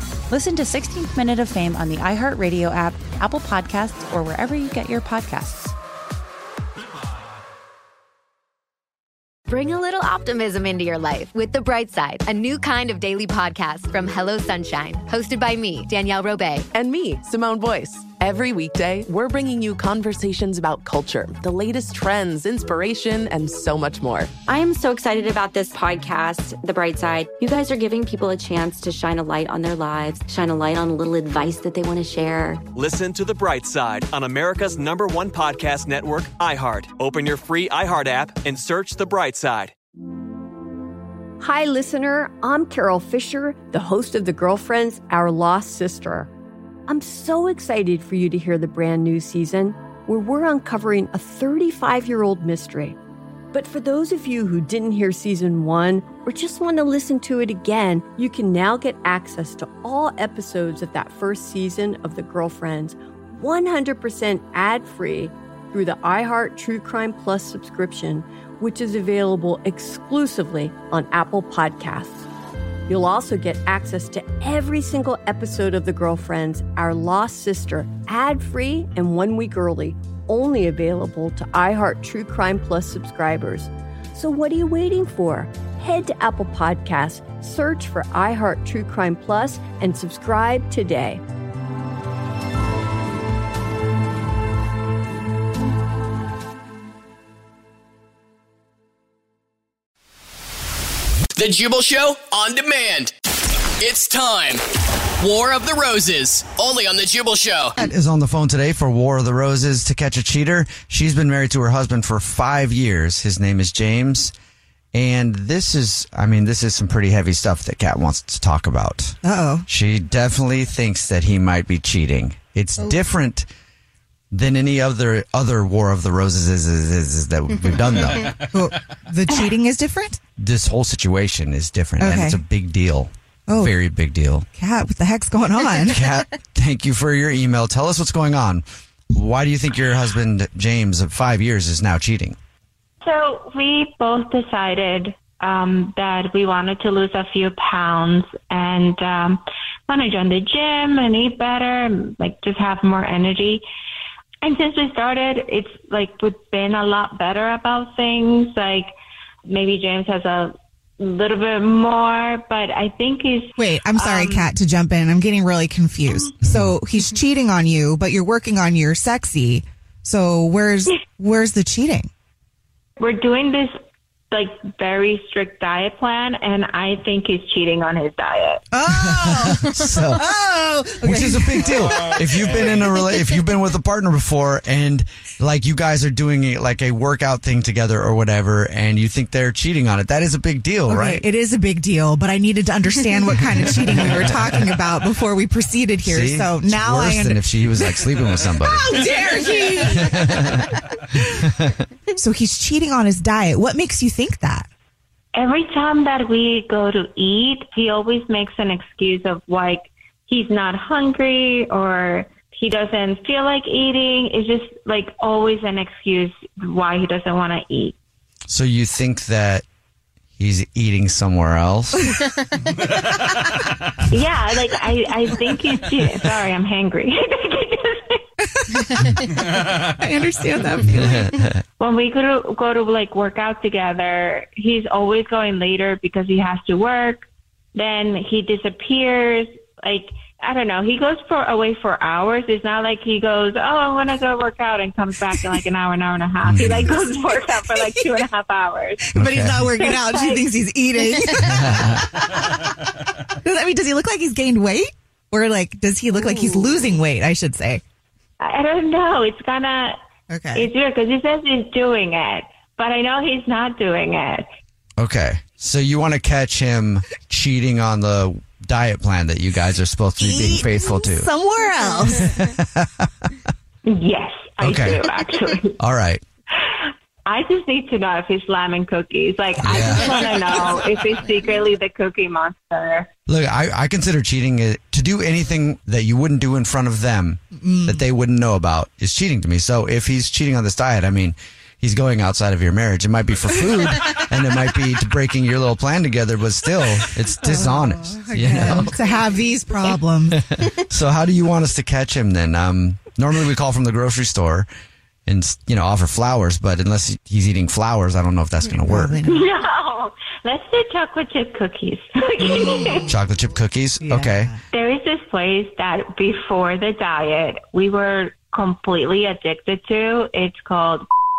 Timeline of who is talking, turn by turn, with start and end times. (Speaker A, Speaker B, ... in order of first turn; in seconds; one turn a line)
Speaker A: 0.3-5.7
Speaker B: 9.5-16.7
Speaker C: 16.7-24.3
Speaker D: 24.5-32.6
Speaker E: 32.7-39.7
Speaker F: 41.4-46.3
Speaker F: 46.9-53.0
Speaker F: 53.5-72.2
Speaker F: 72.9-91.2
Speaker G: 101.3-103.1
Speaker G: 103.8-104.6
Speaker G: 105.2-107.8
Speaker H: 107.8-114.3
Speaker H: 114.9-123.5
Speaker I: 119.2-119.7
Speaker H: 124.3-128.4
Speaker I: 128.4-130.2
Speaker H: 130.4-134.5
Speaker I: 132.0-132.4
Speaker I: 133.5-133.8
Speaker I: 134.5-136.0
Speaker H: 135.9-142.4
Speaker J: 143.0-153.6
Speaker J: 154.4-158.9
Speaker J: 159.5-164.5
Speaker I: 163.6-172.1
Speaker H: 166.4-166.7
Speaker J: 173.0-173.8
Speaker J: 174.3-178.6
Speaker I: 178.7-181.8
Speaker H: 178.9-180.2
Speaker H: 181.0-191.3
Speaker I: 190.9-198.0
Speaker H: 193.8-194.7
Speaker H: 196.0-199.0
Speaker I: 198.6-200.1
Speaker H: 199.7-201.8
Speaker I: 202.2-204.7
Speaker J: 205.3-217.9
Speaker H: 218.5-219.7
Speaker H: 220.4-222.1
Speaker J: 224.1-228.2
Speaker I: 228.6-229.1
Speaker I: 229.9-231.3
Speaker H: 230.8-231.6
Speaker J: 231.8-249.2
Speaker H: 246.4-247.1
Speaker I: 247.7-248.2
Speaker I: 249.1-252.6
Speaker H: 249.2-249.7
Speaker J: 249.8-250.5
Speaker J: 251.2-251.6
Speaker H: 251.5-252.1
Speaker I: 253.4-257.8
Speaker J: 256.2-256.8
Speaker J: 258.4-260.0
Speaker I: 260.3-260.7
Speaker J: 260.5-264.4
Speaker H: 265.0-271.3
Speaker I: 270.2-272.2
Speaker H: 272.2-273.1
Speaker J: 273.9-275.8
Speaker H: 274.6-275.0
Speaker H: 275.8-276.2
Speaker J: 277.3-283.1
Speaker H: 279.6-280.2
Speaker H: 283.3-298.9
Speaker I: 287.6-288.0
Speaker I: 297.4-300.4
Speaker H: 299.8-304.7
Speaker H: 305.3-309.2
Speaker I: 308.7-309.4
Speaker J: 309.3-313.2
Speaker I: 312.4-313.1
Speaker H: 313.1-314.5
Speaker I: 314.0-314.6
Speaker J: 314.7-321.1